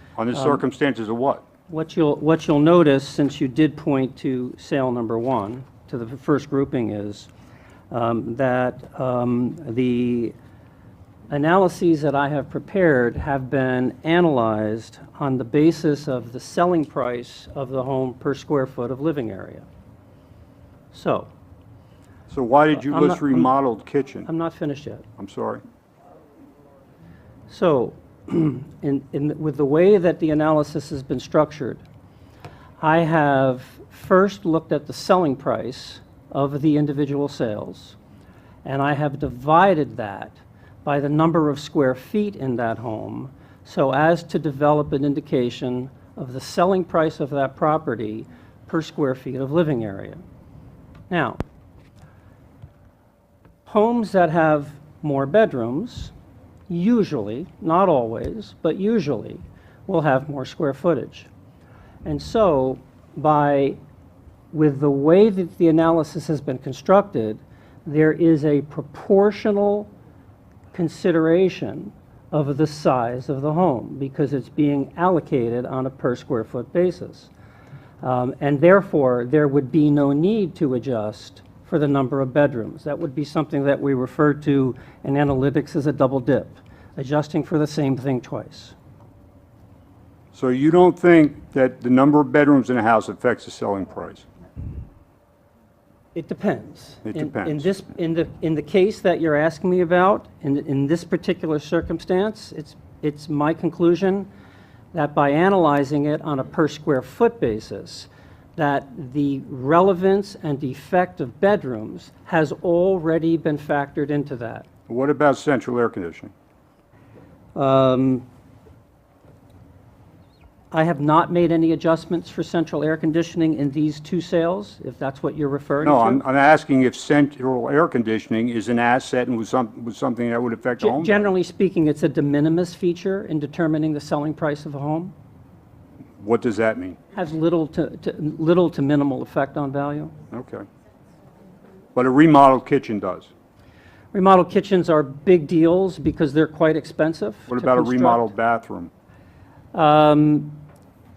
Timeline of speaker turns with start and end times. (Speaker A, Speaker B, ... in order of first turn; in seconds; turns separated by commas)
Speaker A: 0.2-1.4, Speaker B: 0.3-0.6, Speaker B: 1.7-7.3, Speaker B: 7.9-10.3, Speaker B: 11.3-19.7, Speaker B: 20.9-21.3, Speaker A: 22.3-24.3, Speaker B: 22.7-23.5, Speaker B: 24.2-25.1, Speaker A: 25.2-25.6, Speaker B: 27.5-31.8, Speaker B: 32.8-38.0, Speaker B: 38.6-50.2, Speaker B: 51.1-51.4, Speaker B: 53.7-56.1, Speaker B: 56.7-61.3, Speaker B: 62.0-63.8, Speaker B: 64.5-69.9, Speaker B: 70.7-77.3, Speaker B: 78.0-88.8, Speaker A: 90.3-94.3, Speaker B: 96.2-104.3, Speaker A: 97.0-97.7, Speaker B: 104.9-114.7, Speaker A: 114.9-116.3, Speaker B: 117.5-118.2, Speaker B: 120.7-126.2, Speaker A: 125.8-131.3, Speaker B: 130.8-135.1, Speaker A: 136.2-137.0, Speaker B: 137.1-140.1, Speaker A: 140.3-140.7, Speaker A: 141.9-143.3, Speaker B: 144.1-148.3, Speaker A: 147.5-148.9, Speaker B: 149.7-150.6